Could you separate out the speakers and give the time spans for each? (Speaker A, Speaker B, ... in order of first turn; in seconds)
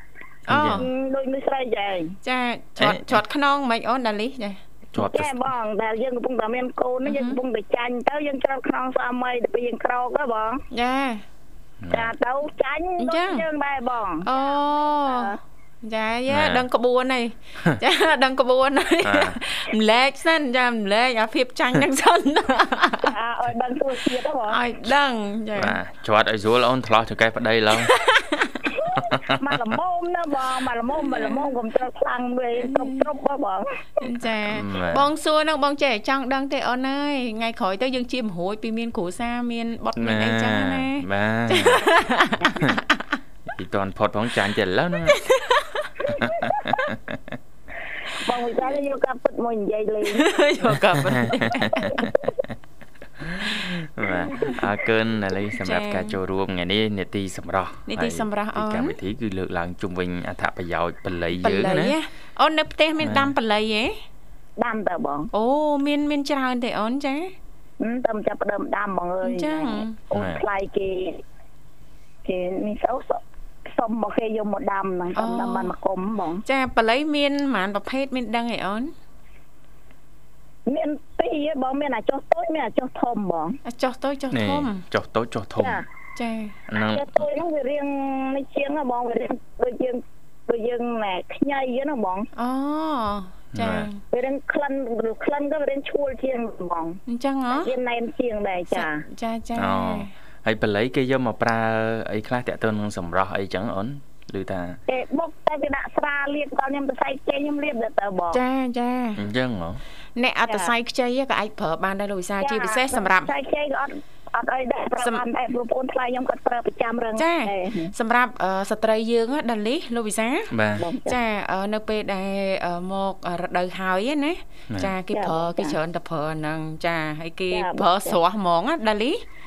Speaker A: 0.5-0.9, 2.2-4.6, 7.0-7.4, 10.7-11.2, 13.0-13.4, 14.2-23.1, 24.5-25.8, 27.8-28.8, 31.0-31.5, 32.6-33.1, 34.0-43.2, 45.1-46.9, 50.1-52.1, 55.6-56.2, 57.9-59.0, 61.4-64.0, 65.3-67.3, 69.2-70.0, 75.1-75.7, 76.5-78.9, 83.7-84.8, 86.1-86.6, 92.3-94.0, 97.1-97.7, 98.7-100.1, 108.3-109.2, 110.2-113.3, 117.2-120.5, 121.0-129.2
Speaker B: 0.5-0.9, 2.8-3.2, 4.9-5.3, 11.8-12.1, 16.3-16.6, 19.0-19.4, 25.6-28.0, 28.9-29.8, 34.5-35.1, 40.0-41.9, 43.5-45.2, 46.1-47.2, 51.0-52.2, 53.2-61.9, 63.0-63.3, 70.1-70.4, 84.3-85.8, 86.7-87.2, 93.5-93.9, 99.5-104.8, 109.2-109.8, 120.5-120.9
Speaker C: 0.8-2.1, 5.0-10.6, 11.9-15.4, 23.1-24.6, 28.7-33.8, 48.1-50.3, 51.7-52.0, 54.1-54.5, 64.6-65.3, 67.8-71.2, 72.2-73.2, 73.7-76.4, 80.7-83.6, 85.6-85.8, 86.8-92.3, 94.1-97.0, 97.5-99.0, 104.9-108.4, 112.4-117.9, 120.8-121.2, 125.1-125.8, 127.5-128.2